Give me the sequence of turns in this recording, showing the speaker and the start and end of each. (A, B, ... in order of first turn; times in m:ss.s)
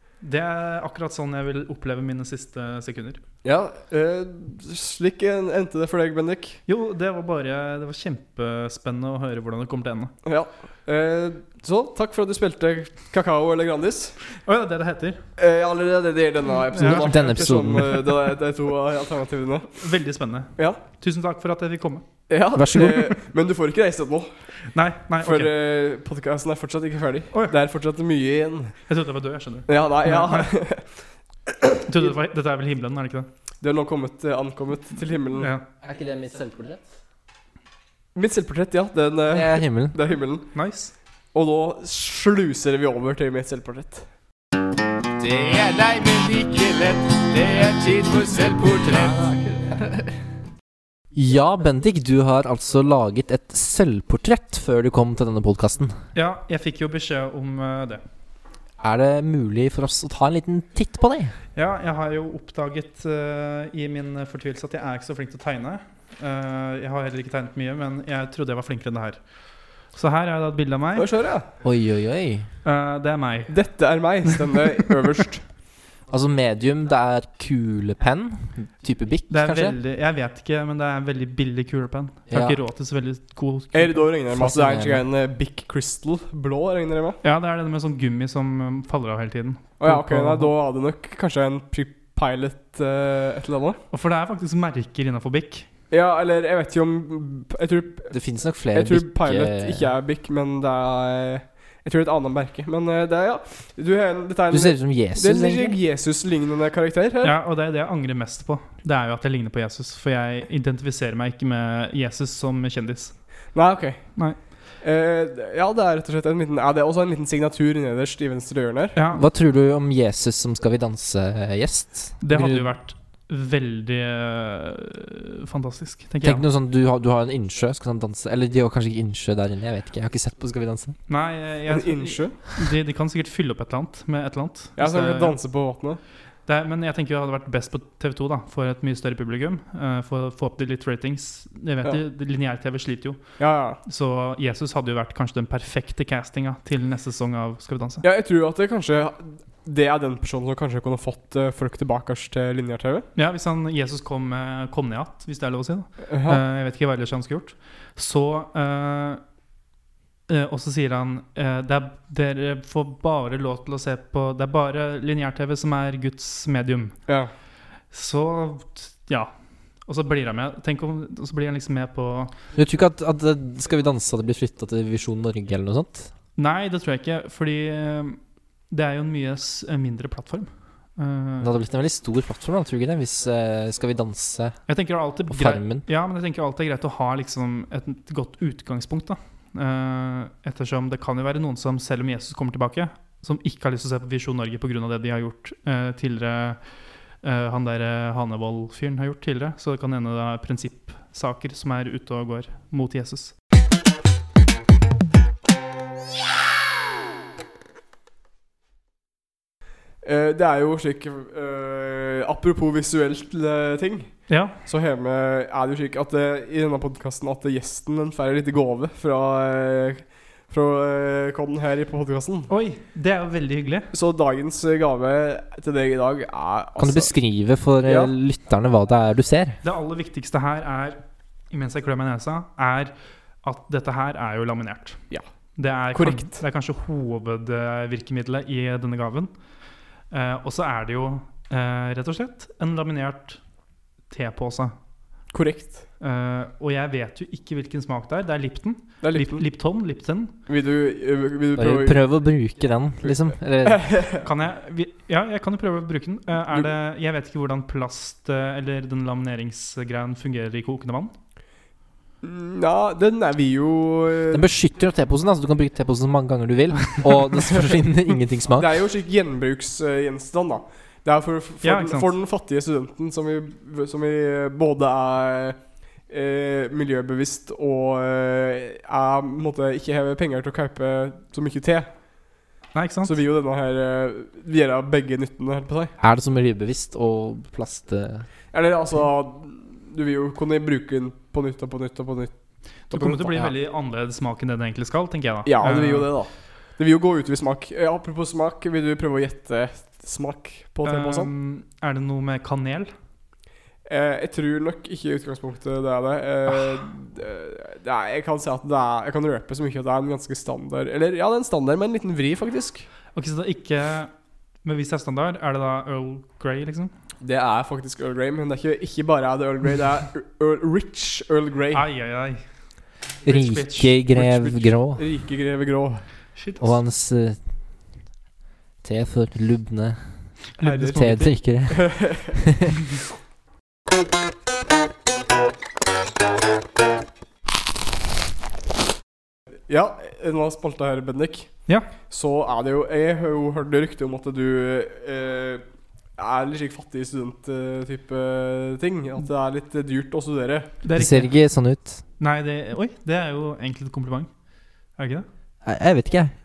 0:00.2-0:03.2 A
0:03.4-0:06.6 B
0:06.7-0:10.1 A
0:10.2-0:14.2 B
0:14.4-0:15.2 A
0:15.4-0:19.7 B
0:16.7-0:17.8 A
0:16.8-0:18.1 C
0:19.8-0:22.0 A
0:22.3-0:24.3 B
0:22.5-0:23.1 C
0:24.7-0:25.5 A
0:25.2-0:28.8 B
0:28.9-0:30.5 A
0:29.7-0:30.9 B
0:31.7-0:32.1 B
0:31.8-0:33.3 A
0:33.6-0:35.5 B
0:35.4-0:35.6 A
0:35.8-0:36.8 C
0:38.1-0:40.5 B
0:39.3-0:39.9 C
0:40.5-0:40.9 A
0:41.3-0:44.0 B
0:45.2-0:50.0 D
0:51.1-0:56.0 C
0:56.1-0:58.0 A
0:58.8-1:01.3 C
1:01.5-1:09.2 A
1:09.9-1:11.1 A
1:10.9-1:11.4 B
1:11.6-1:12.5 C
1:12.6-1:13.9 A
1:13.5-1:15.4 B
1:16.1-1:19.8 C
1:19.3-1:24.1 A
1:22.3-1:22.6 C
1:23.7-1:27.2 B
1:24.3-1:25.0 C
1:27.2-1:30.5 A
1:29.8-1:33.8 B
1:33.9-1:35.7 A
1:35.9-1:38.1 B
1:38.1-1:39.9 C
1:38.7-1:47.3 B
1:44.5-1:45.8 C
1:47.2-1:53.2 A
1:53.5-1:59.0 B
1:54.2-1:54.4 A
1:58.9-1:59.3 A
1:59.1-2:02.7 C
2:02.2-2:06.4 A
2:06.2-2:11.0 C
2:11.1-2:15.4 A
2:11.7-2:12.3 B
2:14.8-2:16.0 B
2:16.4-2:28.0 A
2:23.4-2:23.8 B
2:28.0-2:33.0 B
2:33.1-2:39.2 A
2:36.1-2:36.4 B
2:40.3-2:47.0 A
2:47.9-2:49.3 A
2:49.8-2:52.3 A
2:52.5-2:56.1 C
2:56.4-2:58.2 A
2:58.7-3:01.5 A
3:01.4-3:04.7 C
3:04.7-3:23.3 A
3:05.3-3:05.8 C
3:30.0-3:42.5 B
3:34.3-3:34.6 A
3:42.5-3:43.9 A
3:43.9-3:47.1 B
3:46.8-3:49.6 C
3:47.8-3:48.1 B
3:49.6-3:51.0 A
3:51.5-3:55.0 A
3:55.6-3:59.3 A
3:55.9-3:56.4 B
4:00.1-4:03.4 A
4:04.1-4:04.7 A
4:05.3-4:05.8 B
4:06.0-4:10.3 A
4:09.0-4:09.4 B
4:10.5-4:12.0 B
4:11.6-4:13.8 C
4:13.0-4:14.2 B
4:14.2-4:21.1 A
4:22.2-4:24.4 B
4:24.3-4:28.7 C
4:27.5-4:27.8 B
4:28.6-4:41.9 B
4:31.6-4:32.1 A
4:42.7-4:43.1 A
4:43.0-4:45.9 B
4:46.0-4:48.3 C
4:48.5-4:52.3 B
4:52.9-4:53.3 B
4:52.9-4:56.1 A
4:55.4-5:01.3 B
5:00.8-5:02.9 A
5:03.8-5:12.8 B
5:13.1-5:14.1 A
5:14.6-5:16.9 A
5:17.2-5:21.8 B
5:21.7-5:22.4 A
5:23.2-5:24.6 A
5:23.2-5:25.0 C
5:24.8-5:26.0 B
5:26.4-5:26.7 A
5:26.6-5:27.4 C
5:28.8-5:32.7 C
5:30.6-5:31.3 A
5:30.6-5:32.4 B
5:39.7-5:45.6 B
5:46.2-5:50.7 B
5:50.8-5:51.3 A
5:50.9-5:52.0 C
5:52.2-5:54.3 A
5:55.0-5:55.3 A
5:55.6-5:56.3 C